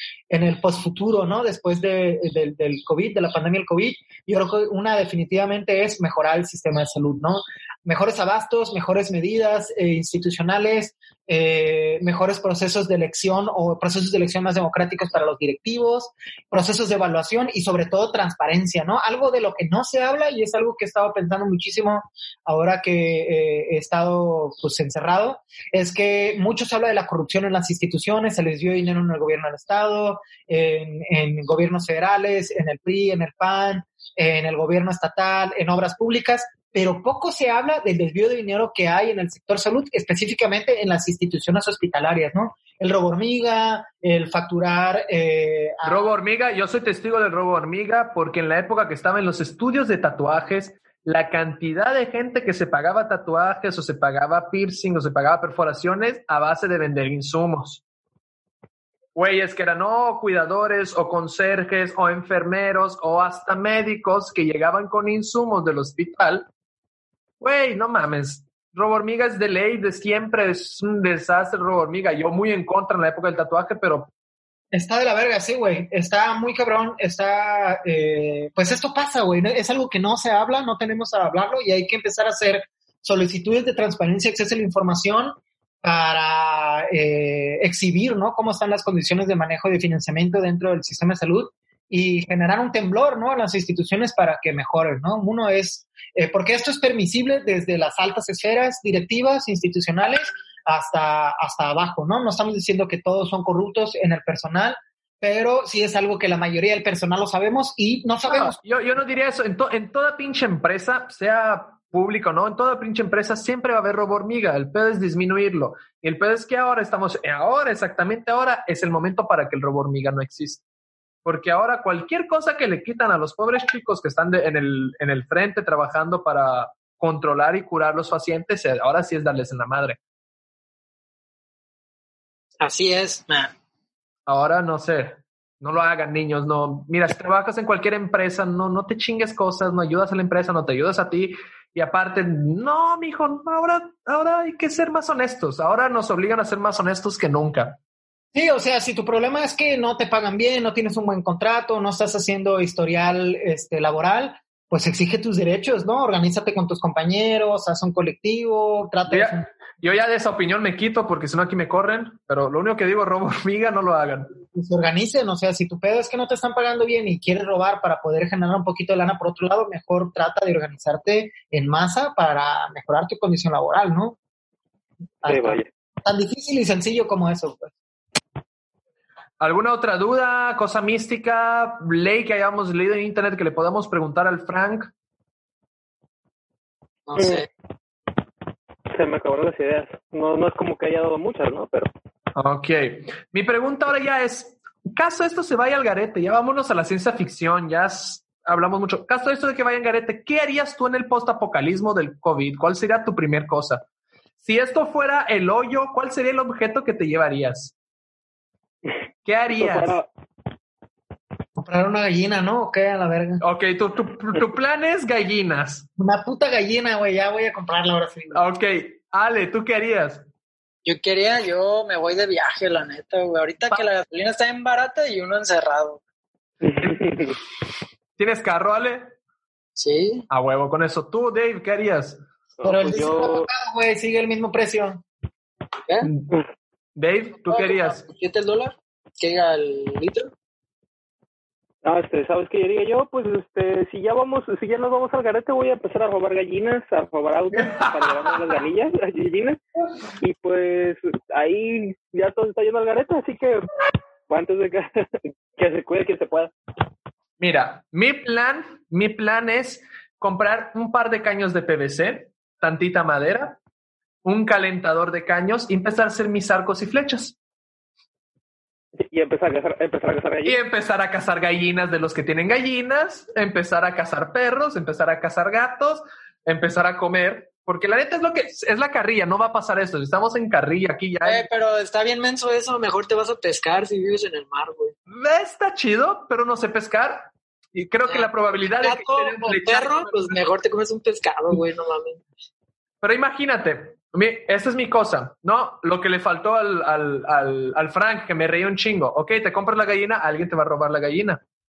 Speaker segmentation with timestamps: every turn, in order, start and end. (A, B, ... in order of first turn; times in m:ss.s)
0:00.3-0:46.1 A
0:45.8-0:57.8 B
0:59.2-1:06.5 B
1:07.4-1:14.1 B
1:14.7-1:48.6 A
1:48.3-2:00.6 B
2:01.2-2:10.0 B
2:12.6-2:13.5 C
2:14.3-2:27.8 B
2:28.3-2:39.5 A
2:39.1-2:44.3 B
2:44.5-2:54.2 A
2:55.2-2:57.7 A
2:55.3-2:55.7 D
2:59.4-3:04.9 B
3:07.1-3:07.5 C
3:08.9-3:11.9 D
3:12.4-3:23.8 B
3:24.4-3:27.7 B
3:29.2-3:30.0 B
3:29.5-3:30.1 D
3:31.6-3:33.4 A
3:33.4-3:35.9 B
3:36.0-3:38.4 A
3:38.3-3:40.2 B
3:40.8-3:46.0 C
3:46.6-3:47.3 D
3:48.2-3:49.2 B
3:49.8-3:50.3 C
3:50.3-3:52.2 B
3:52.6-3:53.5 D
3:52.6-3:55.0 A
3:56.0-3:56.3 B
3:57.0-3:58.0 B
3:57.5-4:00.3 C
4:01.8-4:09.6 D
4:07.5-4:08.3 B
4:10.2-4:13.7 D
4:14.3-4:16.5 D
4:17.4-4:23.6 B
4:24.2-4:27.4 B
4:29.0-4:30.6 D
4:30.4-4:41.5 B
4:41.2-4:45.0 C
4:45.1-4:50.4 B
4:48.1-4:52.2 C
4:53.0-5:01.4 B